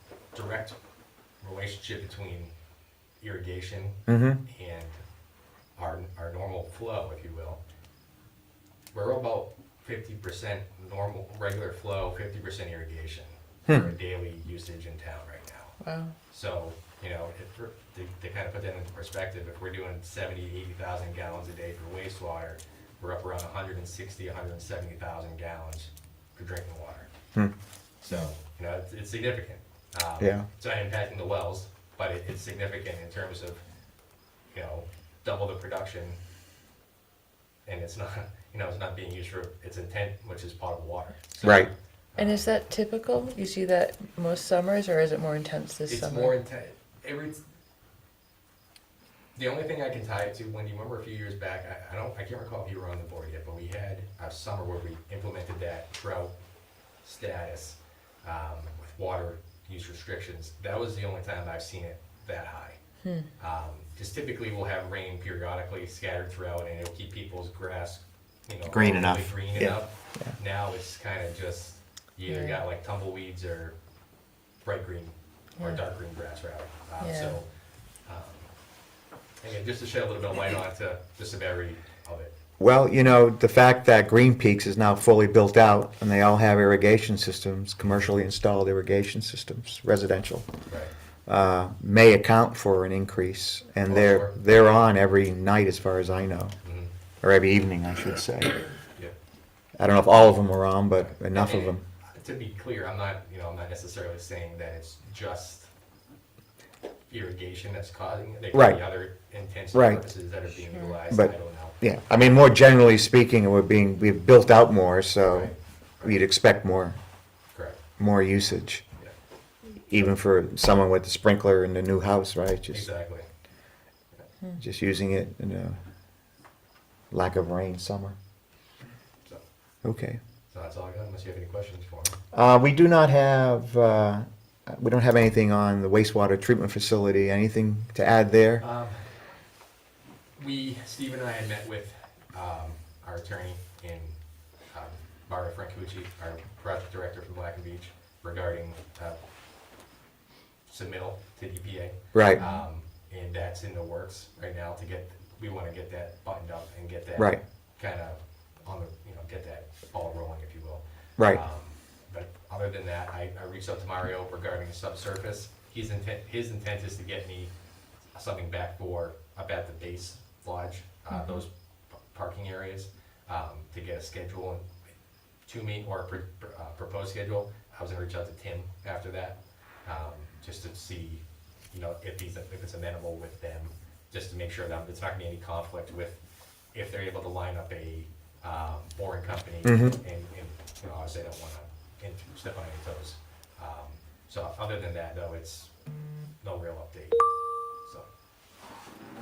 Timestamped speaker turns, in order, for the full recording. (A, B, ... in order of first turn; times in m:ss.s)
0:00.3-0:00.8 A
0:01.4-0:02.5 A
0:03.2-0:05.0 A
0:04.1-0:04.4 B
0:05.8-0:07.6 A
0:08.9-0:15.8 A
0:13.7-0:13.9 B
0:15.8-0:16.1 C
0:16.3-0:27.1 A
0:28.0-0:33.6 A
0:30.2-0:30.5 B
0:34.5-0:36.2 A
0:37.6-0:42.6 A
0:41.4-0:41.7 B
0:42.2-0:46.3 C
0:45.9-0:47.4 A
0:49.3-0:56.3 A
0:57.0-1:02.8 A
1:03.4-1:13.8 A
1:08.7-1:10.3 B
1:12.3-1:12.6 C
1:14.6-1:17.5 A
1:17.0-1:17.4 C
1:18.0-1:18.5 A
1:19.4-1:22.3 A
1:22.6-1:30.5 B
1:31.2-1:36.6 B
1:33.8-1:34.4 A
1:36.6-1:36.9 A
1:37.2-1:38.6 B
1:39.8-1:41.8 B
1:41.0-1:45.7 A
1:47.1-1:51.8 A
1:48.5-1:48.8 B
1:49.7-1:50.0 B
1:51.1-1:57.0 B
1:55.2-1:56.2 A
1:57.5-1:57.8 A
1:58.0-1:58.8 B
1:59.9-2:02.9 B
2:02.7-2:03.3 A
2:04.6-2:05.8 B
2:07.1-2:08.2 B
2:09.8-2:10.2 B
2:10.5-2:12.2 A
2:12.3-2:18.6 B
2:18.6-2:19.0 A
2:20.4-2:24.2 A
2:24.7-2:29.2 A
2:30.7-2:47.5 A
2:32.1-2:32.4 B
2:41.2-2:41.4 B
2:48.1-2:54.6 A
2:51.1-2:51.4 C
2:55.4-3:06.2 A
3:06.7-3:15.7 A
3:09.6-3:10.0 B
3:16.4-3:17.2 A